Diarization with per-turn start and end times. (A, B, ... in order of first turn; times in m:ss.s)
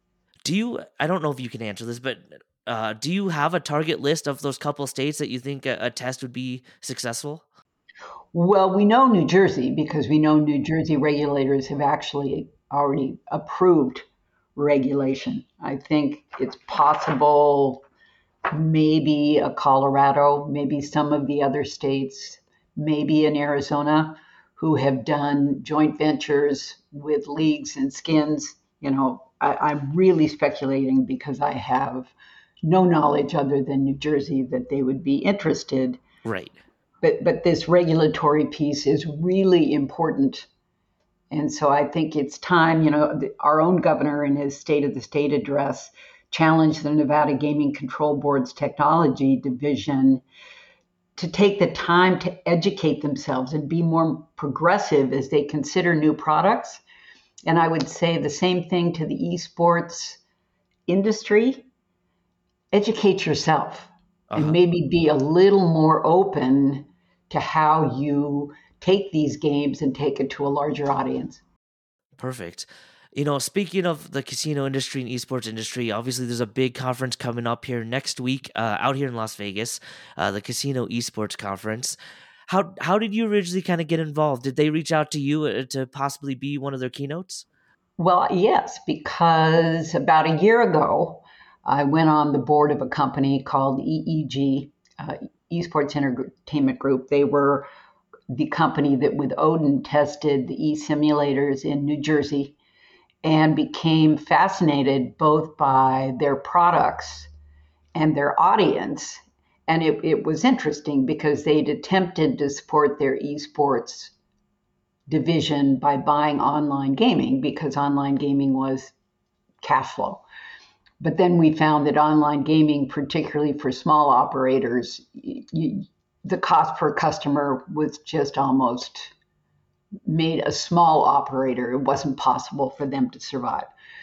0:00.4-0:07.4 A
0:08.3-0:14.0 B
0:14.6-0:17.8 B
0:18.5-0:32.1 B
0:32.7-0:36.0 B
0:36.2-0:36.6 A
0:37.0-0:40.5 B
0:41.3-0:50.2 B
0:51.2-0:56.8 B
0:57.5-1:00.2 B
1:00.9-1:01.6 B
1:02.7-1:11.4 B
1:04.3-1:04.6 A
1:12.2-1:22.0 A
1:22.5-1:27.4 A
1:28.0-1:37.7 B
1:38.3-1:42.6 B
1:43.2-1:47.3 B
1:47.9-1:54.1 B
1:55.1-1:58.9 B
1:59.6-2:00.2 B
2:01.0-2:09.1 B
2:10.1-2:13.7 B